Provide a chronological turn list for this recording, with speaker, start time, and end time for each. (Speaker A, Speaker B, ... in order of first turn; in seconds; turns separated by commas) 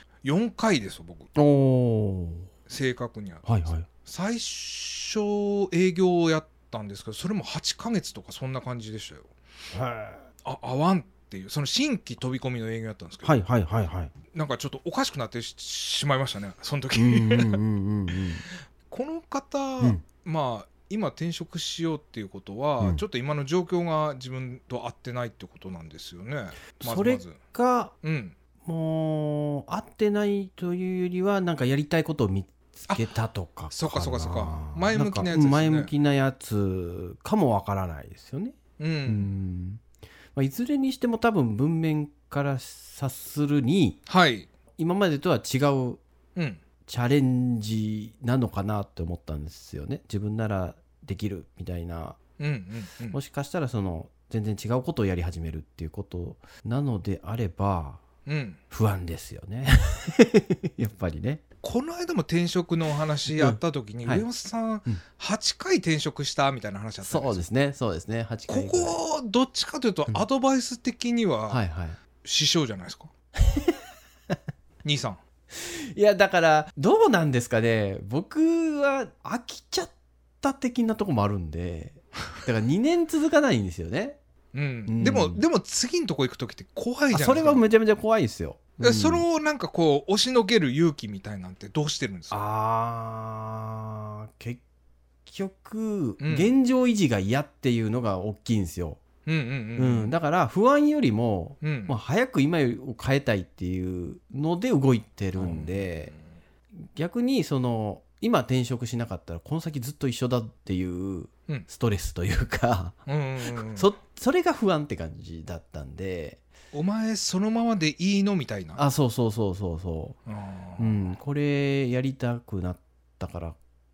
Speaker A: 0.2-1.3, Speaker B: 1.4-2.5, Speaker A: 2.6-9.3, Speaker B: 3.5-3.9, Speaker B: 9.7-10.2, Speaker A: 10.4-13.4, Speaker B: 13.2-14.1, Speaker A: 14.3-18.1, Speaker B: 16.9-18.4, Speaker A: 18.9-27.4, Speaker B: 26.8-27.9, Speaker A: 28.0-28.4, Speaker B: 28.6-38.5, Speaker A: 32.9-33.1, Speaker A: 33.7-35.9, Speaker A: 38.8-39.3, Speaker B: 39.0-39.8, Speaker B: 40.3-44.0, Speaker A: 44.1-44.5, Speaker B: 44.8-46.0, Speaker A: 46.4-46.6, Speaker B: 46.9-52.2, Speaker A: 52.4-53.2, Speaker B: 53.1-58.0, Speaker A: 58.2-58.6, Speaker B: 58.7-61.4, Speaker A: 61.6-67.4, Speaker B: 63.3-64.3, Speaker B: 67.0-69.0, Speaker A: 68.5-71.6, Speaker B: 71.5-72.0, Speaker A: 72.2-73.1, Speaker B: 73.4-73.8, Speaker A: 74.8-75.2, Speaker B: 75.5-84.2, Speaker A: 84.5-87.6, Speaker B: 84.9-85.4, Speaker B: 87.1-89.2, Speaker A: 88.8-92.4, Speaker B: 92.3-94.6, Speaker B: 95.2-99.0, Speaker A: 96.2-96.5, Speaker A: 99.2-100.1, Speaker B: 99.8-106.1, Speaker A: 101.6-101.9, Speaker A: 105.3-106.2, Speaker B: 106.8-116.4, Speaker A: 113.1-113.9, Speaker A: 116.7-118.8, Speaker B: 118.7-120.2, Speaker A: 120.2-121.1, Speaker B: 120.8-123.6